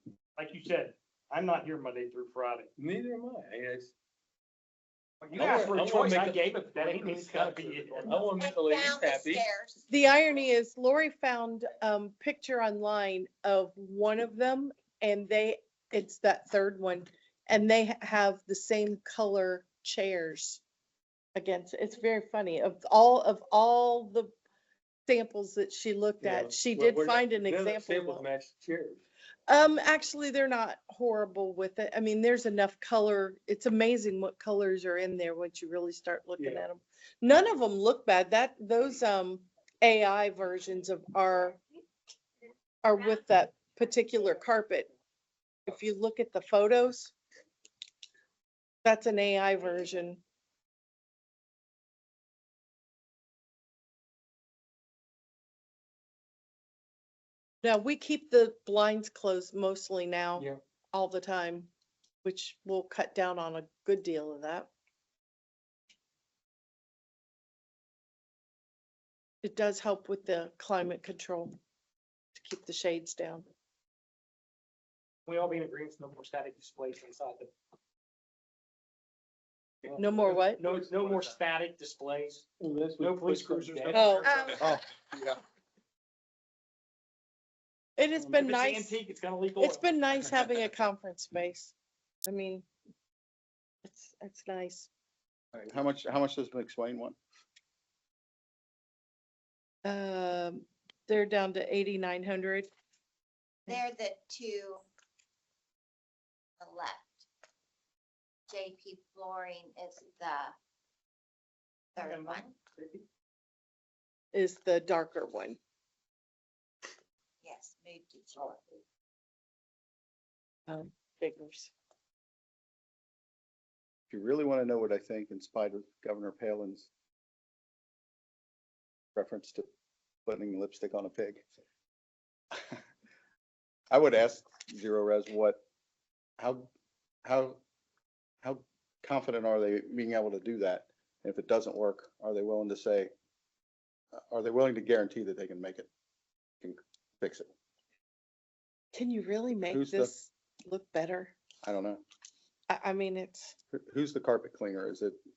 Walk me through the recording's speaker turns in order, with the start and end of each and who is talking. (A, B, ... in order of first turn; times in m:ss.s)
0:00.3-0:02.7 A
0:02.8-0:03.9 B
0:05.2-0:08.3 A
0:05.3-0:09.5 B
0:08.4-0:09.9 C
0:09.9-0:20.6 D
0:21.3-0:24.3 D
0:25.1-0:28.3 D
0:26.2-0:29.0 B
0:29.5-0:41.6 D
0:36.4-0:36.6 B
0:42.8-0:44.9 D
0:45.7-0:47.1 D
0:48.8-0:50.2 D
0:57.6-1:01.7 D
1:02.2-1:04.7 D
1:09.4-1:11.5 D
1:12.3-1:13.5 D
1:15.3-1:17.5 A
1:19.8-1:21.2 B
1:19.9-1:20.6 D
1:20.6-1:22.4 A
1:22.6-1:24.3 B
1:23.0-1:24.7 A
1:23.9-1:24.7 D
1:24.6-1:25.4 E
1:28.0-1:29.0 D
1:28.2-1:30.5 A
1:29.6-1:31.7 D
1:32.2-1:32.7 D
1:33.8-1:34.9 D
1:35.6-1:37.2 E
1:39.8-1:42.7 D
1:43.7-1:44.8 C
1:46.6-1:47.3 C
1:48.5-1:50.5 C
1:51.9-1:52.5 C
1:52.0-1:52.9 A
1:54.3-1:55.6 D
1:57.4-1:58.6 C
2:00.7-2:01.7 D
2:04.1-2:06.9 E
2:09.1-2:09.6 E
2:10.2-2:11.4 E
2:12.5-2:12.8 E
2:13.9-2:15.6 E
2:16.4-2:16.7 E
2:17.2-2:17.6 E
2:18.4-2:23.1 E
2:24.1-2:25.9 E
2:26.6-2:27.5 E
2:28.9-2:31.4 D
2:29.7-2:30.1 E
2:31.6-2:32.0 E
2:32.7-2:33.6 D
2:33.7-2:35.2 E